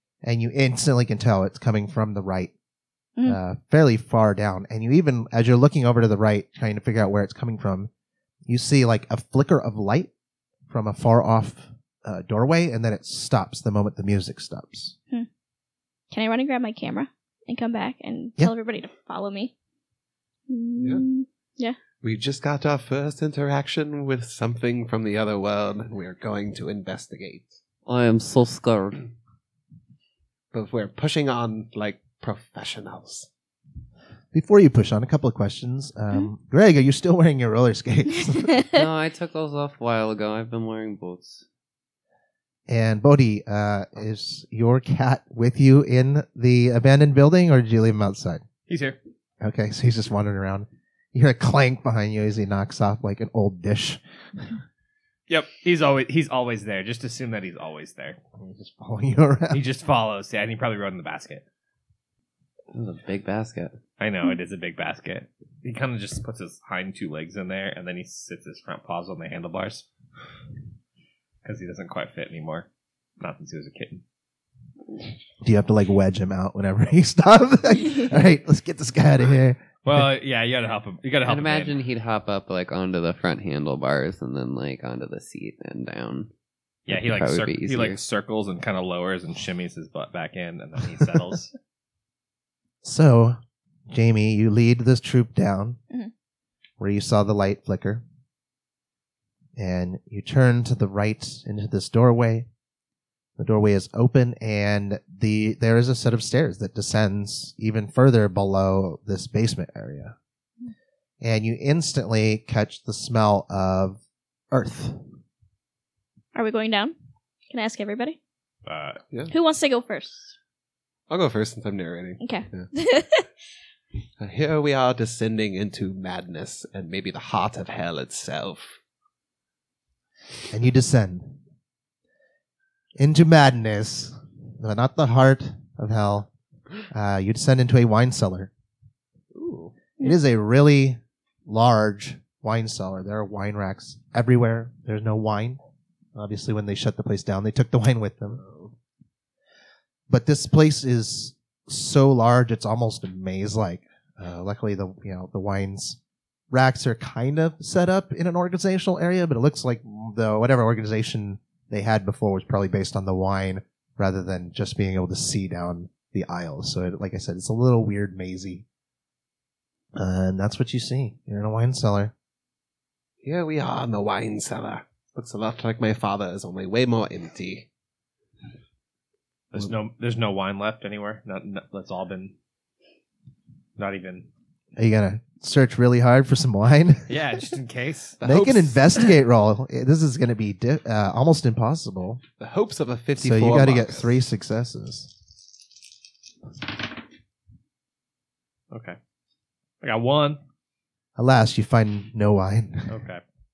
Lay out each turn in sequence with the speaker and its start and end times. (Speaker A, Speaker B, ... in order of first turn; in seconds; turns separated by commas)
Speaker A: 0.2-2.5, Speaker A: 3.2-7.9, Speaker A: 8.4-10.1, Speaker A: 10.7-14.9, Speaker B: 16.1-19.5, Speaker B: 20.5-21.8, Speaker C: 20.8-21.0, Speaker C: 22.0-27.6, Speaker D: 27.9-29.0, Speaker C: 30.5-33.3, Speaker A: 34.3-38.6, Speaker B: 38.5-38.8, Speaker D: 38.7-41.4, Speaker A: 42.7-48.4, Speaker E: 48.7-49.0, Speaker A: 49.4-54.6, Speaker E: 55.3-58.2, Speaker A: 58.4-59.6, Speaker E: 59.5-61.4, Speaker D: 62.7-63.8, Speaker E: 64.0-69.8, Speaker E: 71.4-72.7, Speaker E: 73.2-74.0, Speaker A: 75.4-80.0, Speaker E: 79.8-81.8, Speaker D: 81.2-86.3, Speaker E: 86.9-91.5, Speaker D: 86.9-88.0, Speaker A: 92.8-93.4, Speaker A: 93.9-95.8, Speaker A: 96.8-98.0, Speaker A: 99.5-102.5, Speaker A: 103.4-110.1, Speaker A: 111.2-114.0, Speaker A: 114.5-115.0, Speaker B: 116.3-116.9, Speaker B: 117.5-118.2, Speaker E: 118.7-119.0, Speaker B: 119.3-120.3, Speaker C: 121.1-122.7, Speaker B: 122.2-123.3, Speaker C: 124.2-128.8, Speaker A: 130.5-131.4, Speaker A: 132.9-136.3, Speaker A: 136.9-138.5, Speaker C: 139.3-139.7, Speaker A: 140.0-145.6, Speaker A: 146.1-148.4, Speaker C: 148.4-148.7, Speaker A: 150.1-156.0, Speaker A: 156.5-168.6, Speaker A: 169.9-172.1, Speaker C: 173.2-177.7, Speaker E: 179.5-182.3, Speaker E: 183.8-184.3, Speaker A: 184.8-187.2, Speaker E: 187.1-189.1, Speaker A: 188.2-192.2, Speaker C: 192.4-194.1, Speaker A: 193.2-195.1, Speaker E: 198.7-199.0, Speaker E: 199.8-200.4, Speaker A: 201.2-202.9, Speaker E: 202.9-203.2